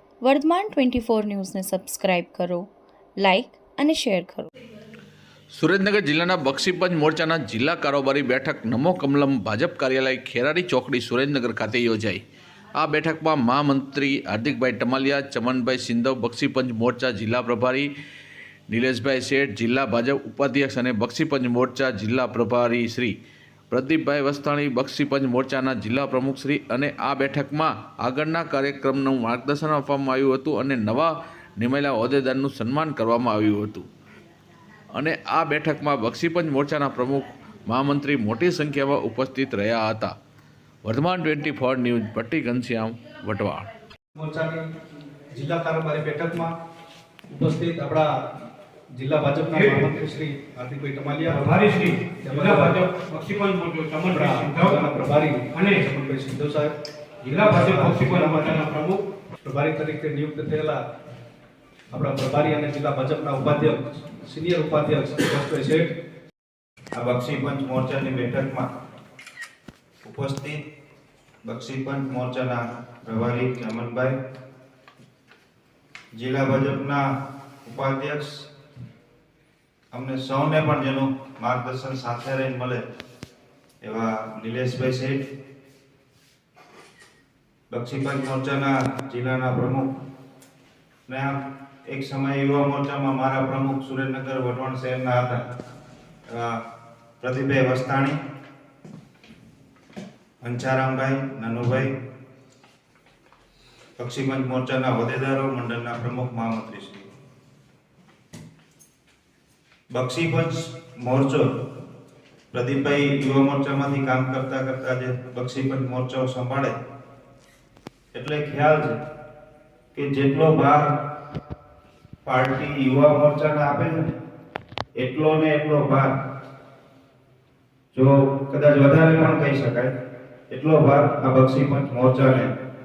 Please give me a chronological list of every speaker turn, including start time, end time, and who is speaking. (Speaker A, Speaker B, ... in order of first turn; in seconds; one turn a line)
Speaker A: 0.2-2.7
Speaker A: 3.2-4.5
Speaker B: 5.5-12.2
Speaker B: 12.8-17.9
Speaker B: 18.7-23.1
Speaker B: 23.7-33.9
Speaker B: 34.9-40.1
Speaker B: 40.9-43.7
Speaker C: 44.1-44.7
Speaker C: 45.3-46.5
Speaker C: 47.3-48.1
Speaker C: 49.0-52.9
Speaker D: 49.5-49.9
Speaker D: 51.3-54.8
Speaker C: 54.0-58.7
Speaker D: 55.5-55.9
Speaker D: 57.2-59.0
Speaker C: 59.5-60.8
Speaker C: 61.9-65.9
Speaker E: 66.9-68.7
Speaker E: 70.0-70.6
Speaker E: 71.5-74.2
Speaker E: 76.2-77.0
Speaker E: 77.6-78.5
Speaker E: 79.9-82.8
Speaker E: 83.8-85.2
Speaker E: 87.7-89.9
Speaker E: 91.1-91.4
Speaker E: 91.9-95.4
Speaker E: 96.3-96.6
Speaker E: 97.2-98.2
Speaker E: 100.4-101.9
Speaker E: 104.0-107.1
Speaker E: 109.9-111.4
Speaker E: 112.5-116.8
Speaker E: 118.1-119.0
Speaker E: 119.9-120.9
Speaker E: 122.2-124.1
Speaker E: 125.0-126.1
Speaker E: 127.9-129.9
Speaker E: 130.5-132.5